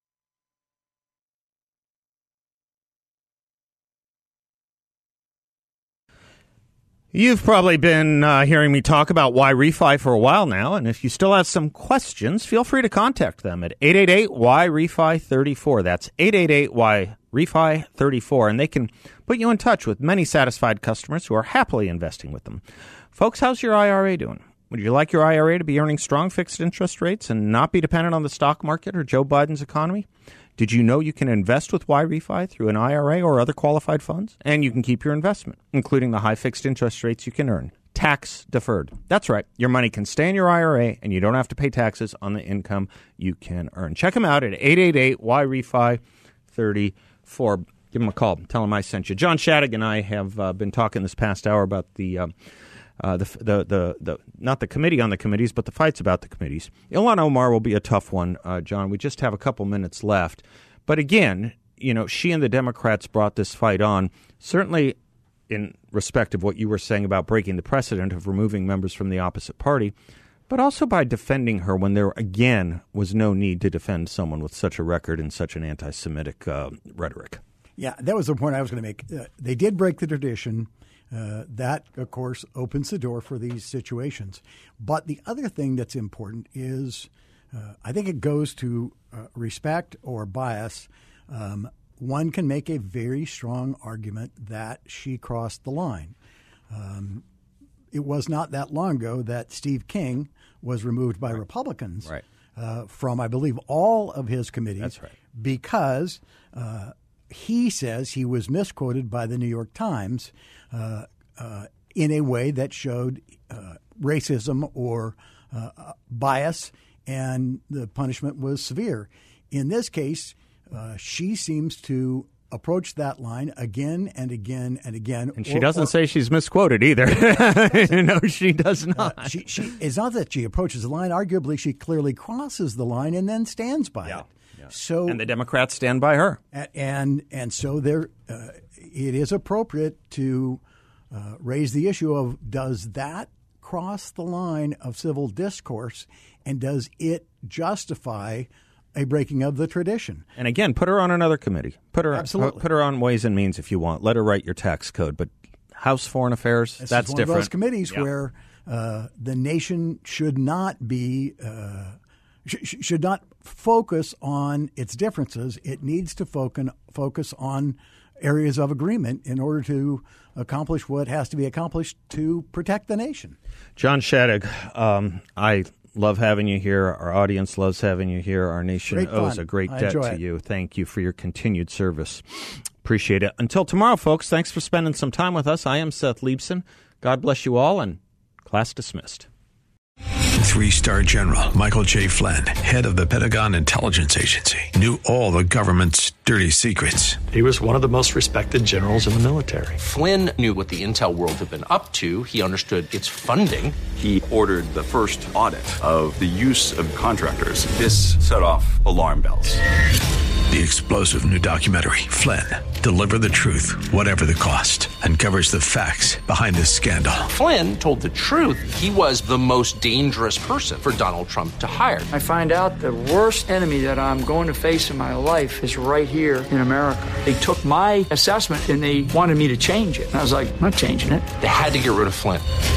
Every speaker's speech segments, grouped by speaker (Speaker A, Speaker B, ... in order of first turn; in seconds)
Speaker A: 7.1-52.3, 53.0-65.0, 65.5-69.9, 70.5-77.4, 104.8-105.1, 125.4-129.4, 135.1-136.4, 150.4-158.1, 173.8-189.3
Speaker B: 77.8-96.2, 96.7-97.2, 97.9-125.9, 128.9-135.2, 136.5-140.6, 141.1-150.3, 152.1-152.6, 156.8-173.4, 178.9-180.2
Speaker C: 190.4-197.2, 210.5-217.3
Speaker D: 197.3-199.8
Speaker E: 199.8-203.8, 217.3-222.1, 231.4-232.5
Speaker F: 203.9-209.6
Speaker G: 222.1-231.3